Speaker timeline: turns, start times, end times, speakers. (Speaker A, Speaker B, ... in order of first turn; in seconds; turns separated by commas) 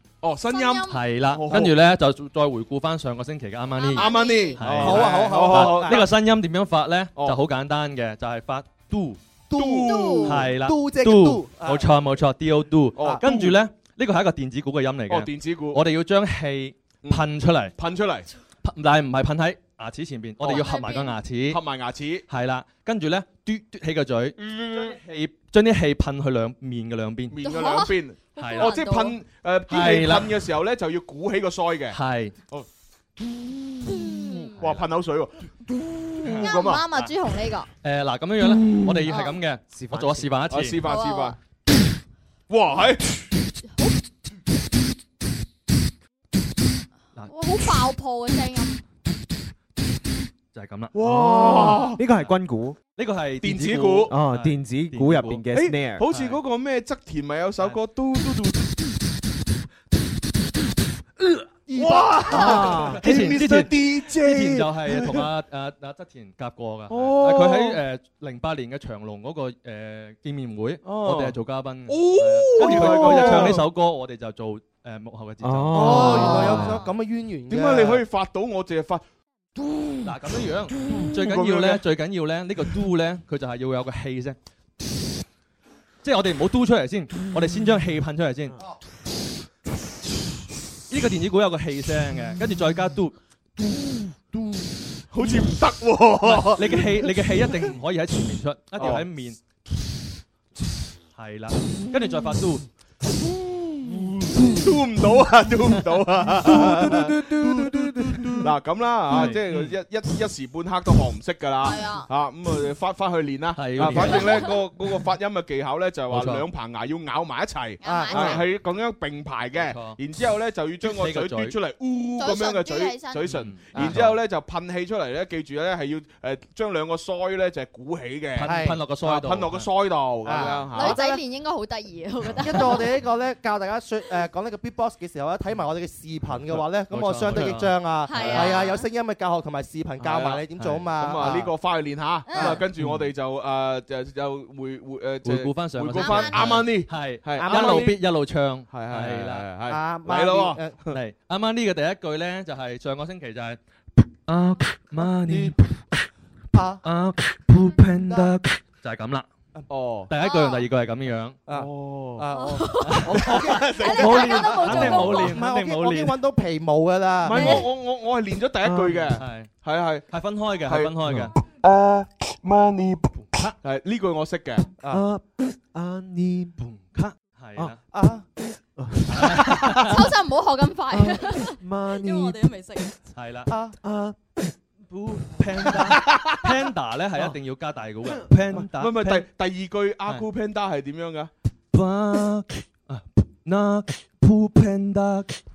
Speaker A: 0.2-1.8, Speaker B: 0.5-1.0, Speaker C: 0.9-9.2, Speaker B: 3.8-4.6, Speaker A: 3.9-6.1, Speaker D: 4.8-6.1, Speaker D: 9.5-11.9, Speaker A: 9.5-10.5, Speaker B: 9.8-10.4, Speaker C: 10.2-17.8, Speaker A: 13.0-13.6, Speaker D: 13.0-13.3, Speaker A: 15.1-15.8, Speaker A: 17.8-18.3, Speaker C: 18.6-21.6, Speaker A: 20.4-20.9, Speaker B: 20.5-21.2, Speaker A: 21.5-22.2, Speaker C: 22.3-27.4, Speaker A: 24.4-25.0, Speaker A: 27.3-32.0, Speaker B: 27.4-29.2, Speaker C: 28.4-28.8, Speaker C: 29.7-30.4, Speaker C: 31.9-32.4, Speaker B: 33.9-34.6, Speaker A: 34.6-37.1, Speaker C: 36.2-36.5, Speaker B: 36.4-37.7, Speaker C: 37.8-40.8, Speaker B: 39.1-39.4, Speaker E: 39.7-40.3, Speaker A: 40.5-41.4, Speaker B: 40.9-41.4, Speaker A: 42.5-43.2, Speaker B: 47.3-48.8, Speaker C: 50.5-52.3, Speaker A: 50.9-52.0, Speaker E: 51.0-52.8, Speaker C: 52.9-55.4, Speaker A: 53.4-54.2, Speaker E: 54.1-56.1, Speaker A: 55.5-58.7, Speaker C: 56.1-56.4, Speaker D: 61.7-62.8, Speaker A: 61.7-65.3, Speaker E: 62.3-63.4, Speaker C: 62.9-76.8, Speaker A: 66.9-67.8, Speaker A: 70.8-71.4, Speaker A: 71.9-73.7, Speaker E: 72.6-73.6, Speaker E: 75.4-76.6, Speaker D: 75.7-78.0, Speaker B: 75.8-76.9, Speaker A: 77.5-79.0, Speaker C: 80.0-84.4, Speaker A: 80.9-81.8, Speaker C: 86.0-88.6, Speaker C: 90.9-93.2, Speaker A: 95.1-97.1, Speaker C: 96.2-99.4, Speaker A: 98.8-99.1, Speaker C: 101.2-102.6, Speaker A: 103.4-131.0, Speaker C: 109.1-109.7, Speaker B: 111.6-112.1, Speaker C: 113.6-114.5, Speaker B: 113.9-114.6, Speaker C: 116.1-116.5, Speaker B: 117.8-118.4, Speaker D: 117.8-118.5, Speaker C: 119.5-120.0, Speaker C: 120.8-121.5, Speaker B: 122.2-123.3, Speaker C: 123.3-124.2, Speaker D: 123.7-124.0, Speaker C: 128.4-129.7, Speaker D: 128.4-128.9, Speaker D: 130.2-131.2, Speaker B: 130.7-132.9, Speaker D: 132.4-141.5, Speaker C: 136.5-138.6, Speaker B: 138.1-138.9, Speaker A: 140.1-140.4, Speaker C: 140.1-140.9, Speaker A: 141.0-148.0, Speaker B: 142.3-142.6, Speaker D: 142.3-142.6, Speaker C: 142.8-143.1, Speaker C: 145.2-149.5, Speaker B: 145.9-146.7, Speaker D: 147.3-148.0, Speaker A: 148.7-150.9, Speaker D: 149.7-150.8, Speaker C: 150.9-153.6, Speaker C: 154.3-155.8, Speaker D: 156.5-156.8, Speaker C: 156.8-159.3, Speaker D: 158.0-158.3, Speaker A: 159.7-160.1, Speaker C: 160.1-161.4, Speaker B: 160.2-160.7, Speaker D: 161.5-167.7, Speaker A: 161.5-162.2, Speaker B: 162.3-165.4, Speaker C: 162.9-166.2, Speaker A: 163.1-165.2, Speaker A: 167.2-170.1, Speaker B: 167.3-167.7, Speaker E: 168.7-169.0, Speaker C: 168.8-169.5, Speaker C: 170.1-171.3, Speaker A: 170.7-173.0, Speaker C: 173.2-173.6, Speaker A: 173.6-174.7, Speaker E: 174.9-176.6, Speaker C: 176.6-177.8, Speaker D: 177.9-178.3, Speaker E: 178.8-179.6, Speaker C: 179.1-180.1, Speaker B: 179.8-182.9, Speaker E: 180.9-182.5, Speaker C: 183.2-183.5, Speaker D: 183.5-183.8, Speaker E: 183.8-184.2, Speaker C: 184.9-189.3, Speaker A: 186.0-186.5, Speaker A: 188.5-191.3, Speaker C: 191.7-195.4